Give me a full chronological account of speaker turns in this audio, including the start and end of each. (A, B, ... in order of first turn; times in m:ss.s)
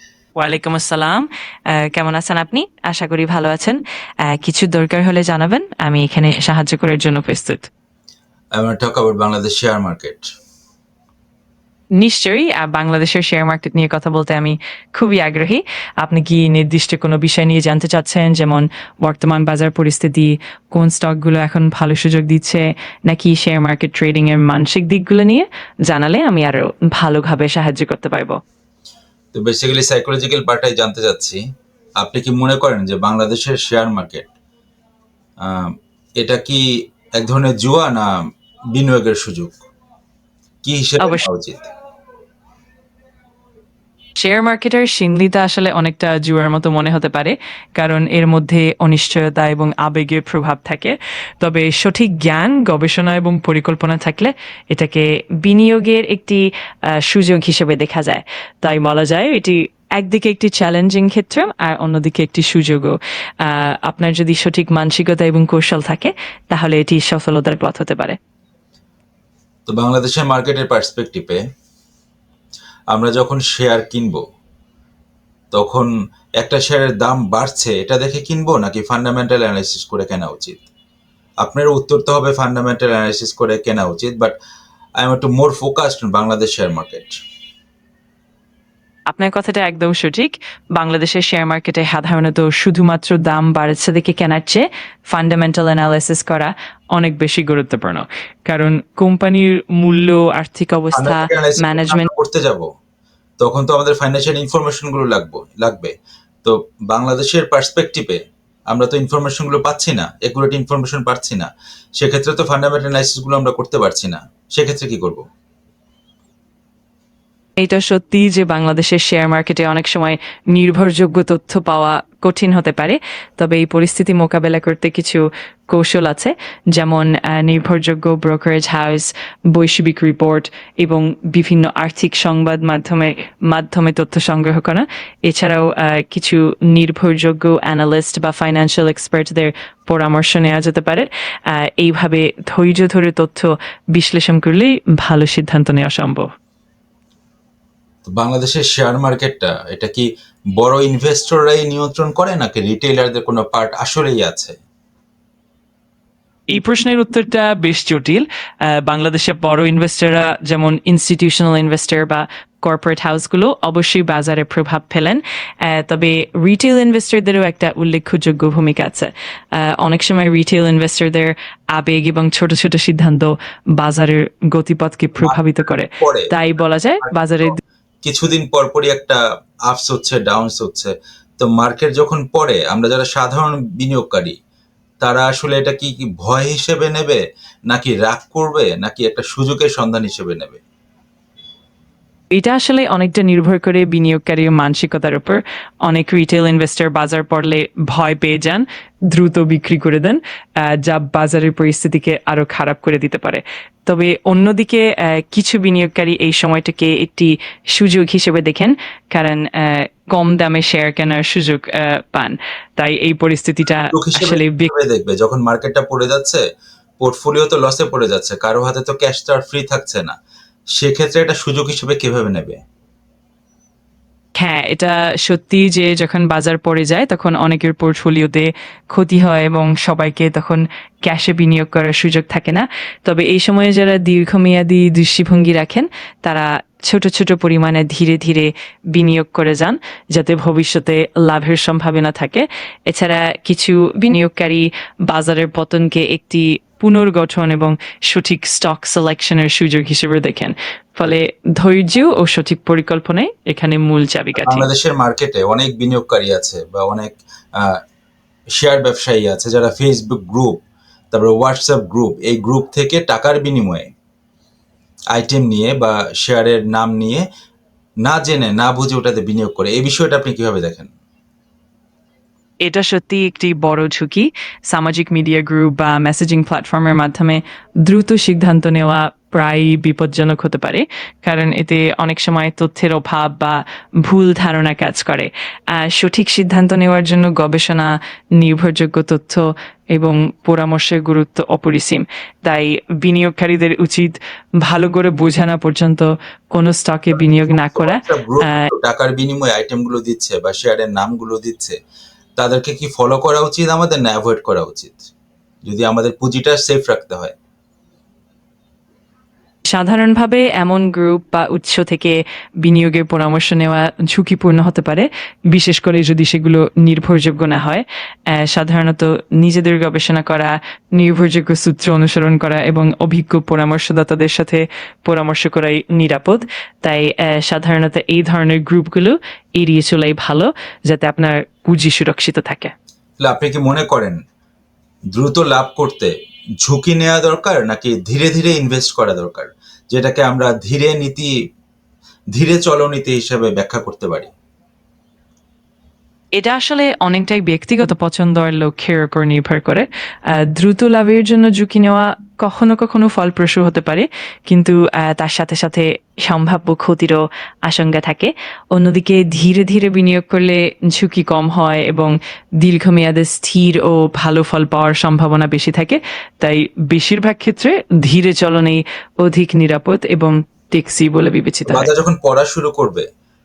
0:00.4-0:07.7 A
0:08.6-0:10.3 B
0:12.0-0:28.4 A
0:29.3-0:31.4 B
0:32.0-0:34.3 B
0:35.4-0:36.6 B
0:37.2-0:39.6 B
0:40.6-0:41.7 B
0:41.0-0:41.2 A
0:44.2-1:08.2 A
1:09.7-1:11.4 B
1:12.9-1:14.2 B
1:15.5-1:20.6 B
1:21.4-1:24.4 B
1:25.0-1:27.2 B
1:29.1-1:42.1 A
1:40.9-1:42.7 B
1:43.4-1:55.2 B
1:57.6-2:26.3 A
2:28.0-2:34.6 B
2:36.5-2:57.6 A
2:56.0-2:56.3 B
2:58.0-3:04.4 B
3:05.0-3:10.6 B
3:12.3-3:34.7 A
3:33.9-3:36.4 B
3:37.0-3:40.2 B
3:40.8-3:42.6 B
3:44.4-4:14.7 A
4:14.4-4:17.8 B
4:18.6-4:20.6 B
4:21.1-4:23.9 B
4:25.1-4:27.2 B
4:28.0-4:30.9 B
4:32.6-4:58.7 A
4:57.1-5:01.8 B
5:02.4-5:05.1 B
5:05.6-5:07.4 B
5:09.7-5:32.7 A
5:33.2-5:34.2 B
5:35.1-5:36.1 B
5:36.6-5:41.3 B
5:42.4-5:44.3 B
5:46.3-6:11.9 A
6:11.7-6:13.1 B